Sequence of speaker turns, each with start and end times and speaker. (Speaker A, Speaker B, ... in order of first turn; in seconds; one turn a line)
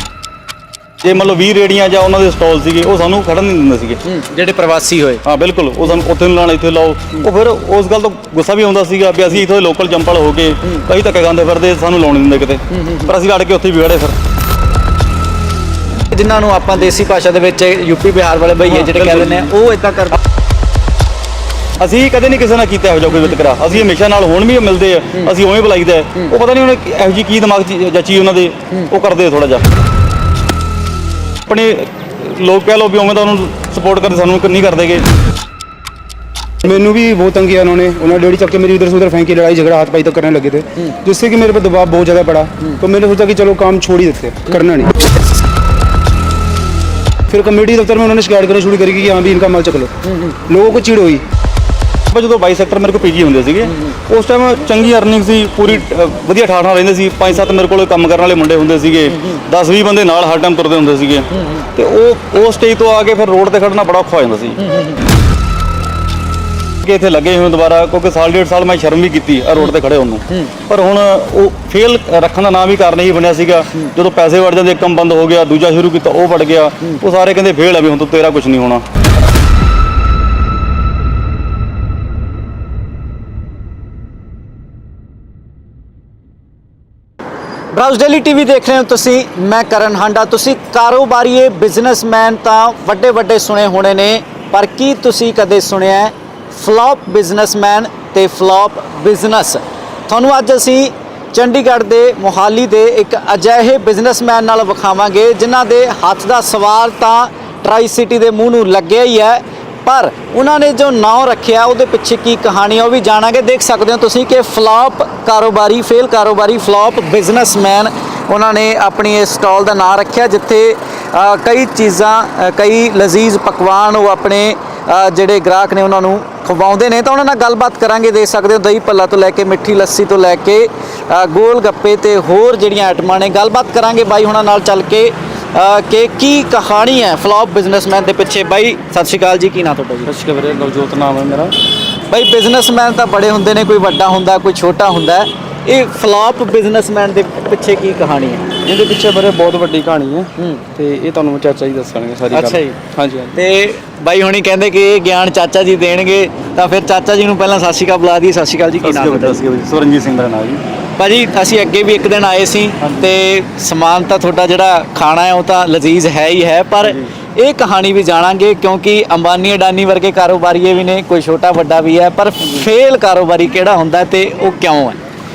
Speaker A: 1.0-4.0
Speaker B: 4.0-5.2
Speaker A: 5.2-14.2
Speaker B: 12.8-13.0
Speaker B: 16.1-20.2
Speaker A: 18.6-19.5
Speaker A: 21.8-29.6
Speaker A: 31.5-35.0
Speaker C: 36.6-44.9
Speaker C: 47.3-49.9
Speaker C: 50.5-51.2
Speaker A: 52.1-64.6
Speaker B: 61.3-61.6
Speaker B: 64.6-65.0
Speaker A: 66.8-78.8
Speaker B: 87.7-140.1
Speaker A: 140.1-141.5
Speaker B: 142.1-148.5
Speaker C: 148.7-149.0
Speaker A: 149.4-150.2
Speaker B: 150.4-150.6
Speaker A: 150.8-153.3
Speaker B: 152.3-152.8
Speaker B: 153.3-159.5
Speaker A: 158.8-160.6
Speaker B: 161.0-175.0
Speaker A: 162.8-163.1